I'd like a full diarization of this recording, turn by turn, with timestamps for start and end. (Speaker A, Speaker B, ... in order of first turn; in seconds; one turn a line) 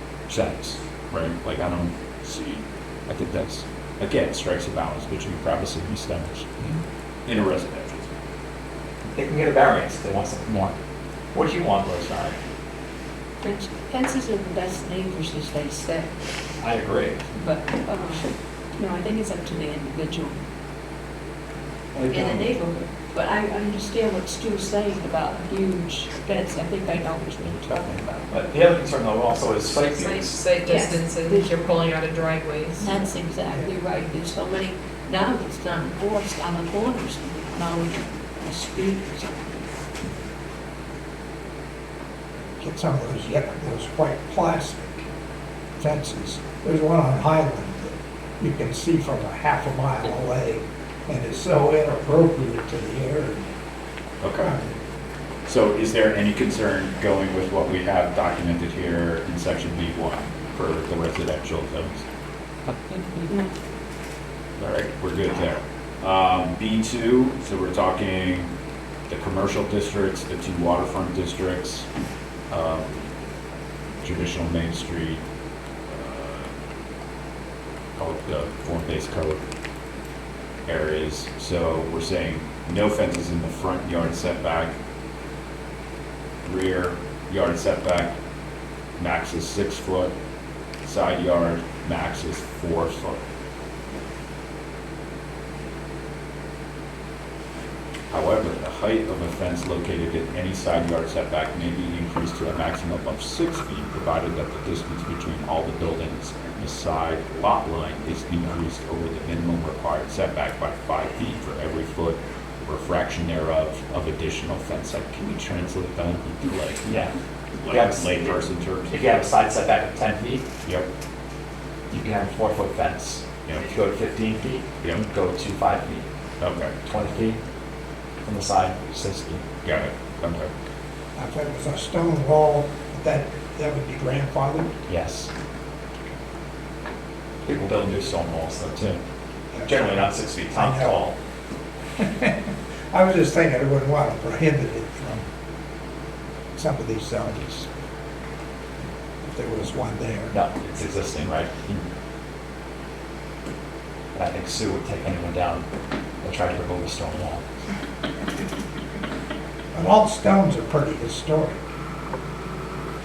Speaker A: 0.3-6.5
Speaker A: 7.2-8.1
Speaker B: 9.0-10.8
Speaker B: 11.3-12.4
Speaker C: 13.4-16.1
Speaker B: 16.6-17.3
Speaker C: 17.3-20.4
Speaker B: 21.9-22.5
Speaker C: 22.0-28.3
Speaker B: 28.3-30.5
Speaker D: 29.8-33.0
Speaker C: 30.6-31.7
Speaker C: 32.8-39.6
Speaker E: 42.6-45.0
Speaker E: 45.8-53.5
Speaker A: 54.2-54.5
Speaker E: 54.4-54.7
Speaker A: 55.4-62.0
Speaker A: 64.6-68.5
Speaker A: 69.1-71.9
Speaker A: 72.5-73.1
Speaker A: 74.0-75.2
Speaker A: 75.9-76.5
Speaker A: 78.0-79.4
Speaker A: 80.7-84.8
Speaker A: 86.4-88.2
Speaker A: 89.0-90.2
Speaker A: 90.8-93.2
Speaker A: 98.1-116.9
Speaker B: 116.8-117.1
Speaker A: 117.6-119.2
Speaker B: 117.7-118.3
Speaker B: 118.9-120.5
Speaker A: 120.6-120.9
Speaker B: 121.9-126.1
Speaker A: 123.4-123.7
Speaker A: 124.8-125.1
Speaker A: 126.4-126.7
Speaker B: 126.8-127.4
Speaker B: 128.2-129.4
Speaker A: 129.6-130.5
Speaker E: 131.2-134.7
Speaker B: 134.9-135.3
Speaker B: 137.4-139.0
Speaker E: 139.5-141.0
Speaker B: 139.6-141.1
Speaker E: 142.0-145.3
Speaker E: 146.6-147.7
Speaker E: 149.2-150.3
Speaker B: 150.3-151.9
Speaker B: 154.1-155.7
Speaker B: 156.2-157.4
Speaker E: 159.7-161.6